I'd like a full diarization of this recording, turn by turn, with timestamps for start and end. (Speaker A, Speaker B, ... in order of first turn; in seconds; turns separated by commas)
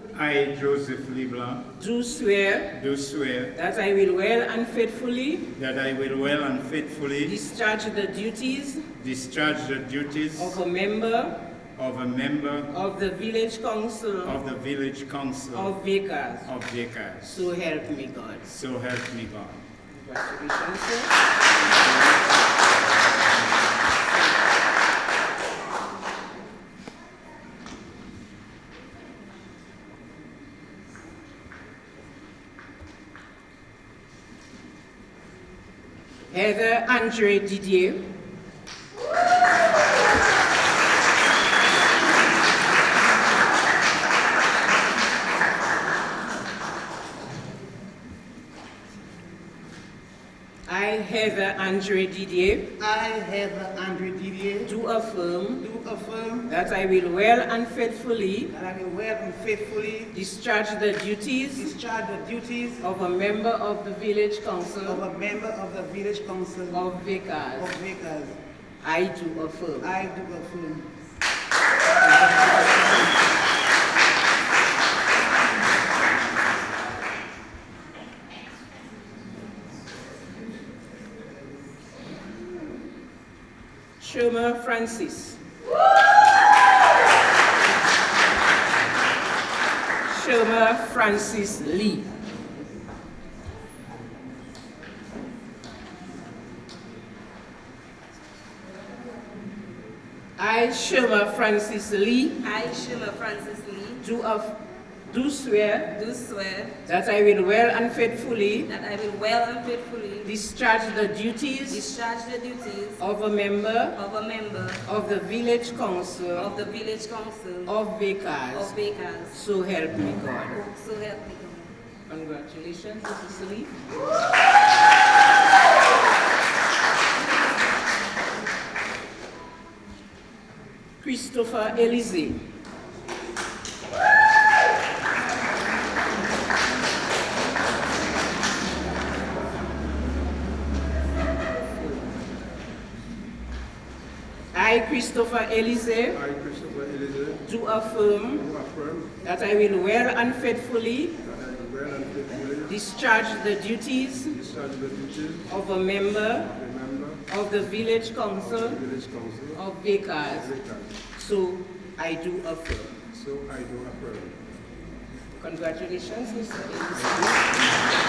Speaker A: 0.1-1.6, Speaker B: 1.8-2.8, Speaker A: 2.7-3.5, Speaker B: 3.5-5.5, Speaker A: 5.5-7.4, Speaker B: 7.2-8.9, Speaker A: 8.9-10.6, Speaker B: 10.3-11.3, Speaker A: 11.8-12.7, Speaker B: 12.7-14.4, Speaker A: 14.2-15.8, Speaker B: 15.5-16.5, Speaker A: 16.4-17.5, Speaker B: 17.2-18.5, Speaker A: 18.4-19.6, Speaker B: 19.9-21.1, Speaker B: 36.3-38.0, Speaker B: 50.6-52.7, Speaker C: 52.8-54.7, Speaker B: 54.6-55.6, Speaker C: 55.6-56.5, Speaker B: 56.5-58.5, Speaker C: 58.5-60.1, Speaker B: 60.1-61.7, Speaker C: 61.5-62.8, Speaker B: 62.8-65.0, Speaker C: 64.8-66.9, Speaker B: 66.7-67.8, Speaker C: 67.5-68.4, Speaker B: 68.8-69.9, Speaker C: 69.8-70.8, Speaker C: 72.0-73.1, Speaker B: 84.0-85.4, Speaker B: 90.0-92.1, Speaker B: 100.4-102.4, Speaker D: 102.4-104.0, Speaker B: 104.0-106.0, Speaker D: 105.9-106.8, Speaker B: 106.8-108.7, Speaker D: 108.7-110.3, Speaker B: 110.2-112.0, Speaker D: 111.7-113.0, Speaker B: 113.0-114.0, Speaker D: 113.9-114.8, Speaker B: 114.8-116.5, Speaker D: 116.3-117.7, Speaker B: 117.6-118.7, Speaker D: 118.5-119.4, Speaker B: 119.3-120.6, Speaker D: 120.5-121.7, Speaker B: 122.1-123.8, Speaker B: 131.0-132.4, Speaker B: 144.5-146.2, Speaker E: 146.2-147.4, Speaker B: 147.4-148.5, Speaker E: 148.5-149.1, Speaker B: 149.2-151.1, Speaker E: 151.2-152.7, Speaker B: 152.6-154.4, Speaker E: 154.4-155.4, Speaker B: 155.4-156.5, Speaker E: 156.5-157.2, Speaker B: 157.3-158.8, Speaker E: 158.7-159.5, Speaker B: 159.5-160.6, Speaker E: 160.4-160.9, Speaker B: 161.1-163.1, Speaker E: 163.1-164.4, Speaker B: 165.4-167.6